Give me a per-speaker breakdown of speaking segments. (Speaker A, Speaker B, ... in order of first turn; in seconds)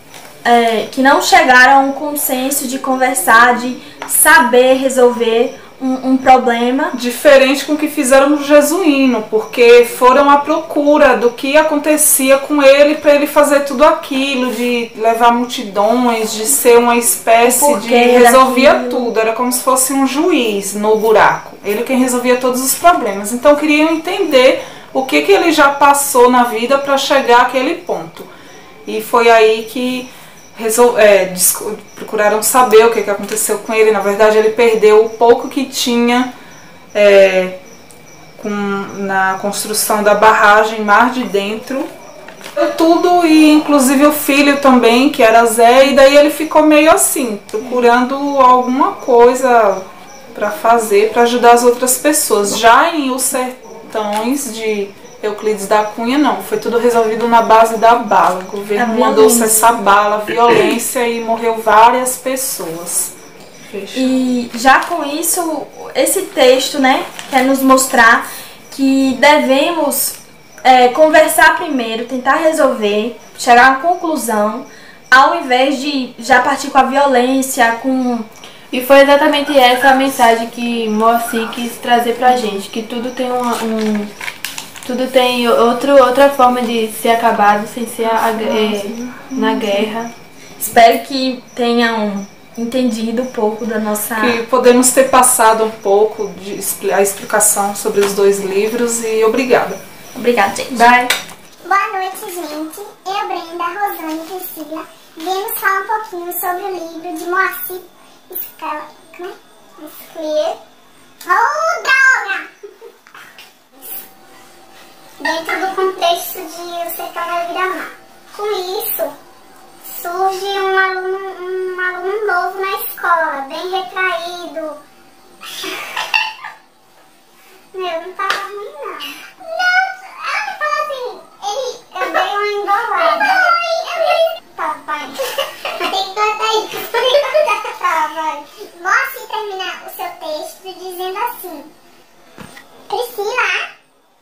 Speaker A: 0.5-7.0, 17.4-19.1, 58.8-59.7, 63.9-78.3, 90.6-94.4, 100.2-101.1
Speaker B: 6.9-28.3, 28.9-36.3, 36.9-37.6, 38.4-41.9, 42.6-63.1, 63.7-64.2, 88.9-89.3, 94.2-99.8
Speaker C: 78.7-84.1, 84.8-90.1
Speaker D: 101.6-110.6, 111.2-112.5, 115.2-119.2, 119.9-124.8, 127.7-141.7, 142.9-143.7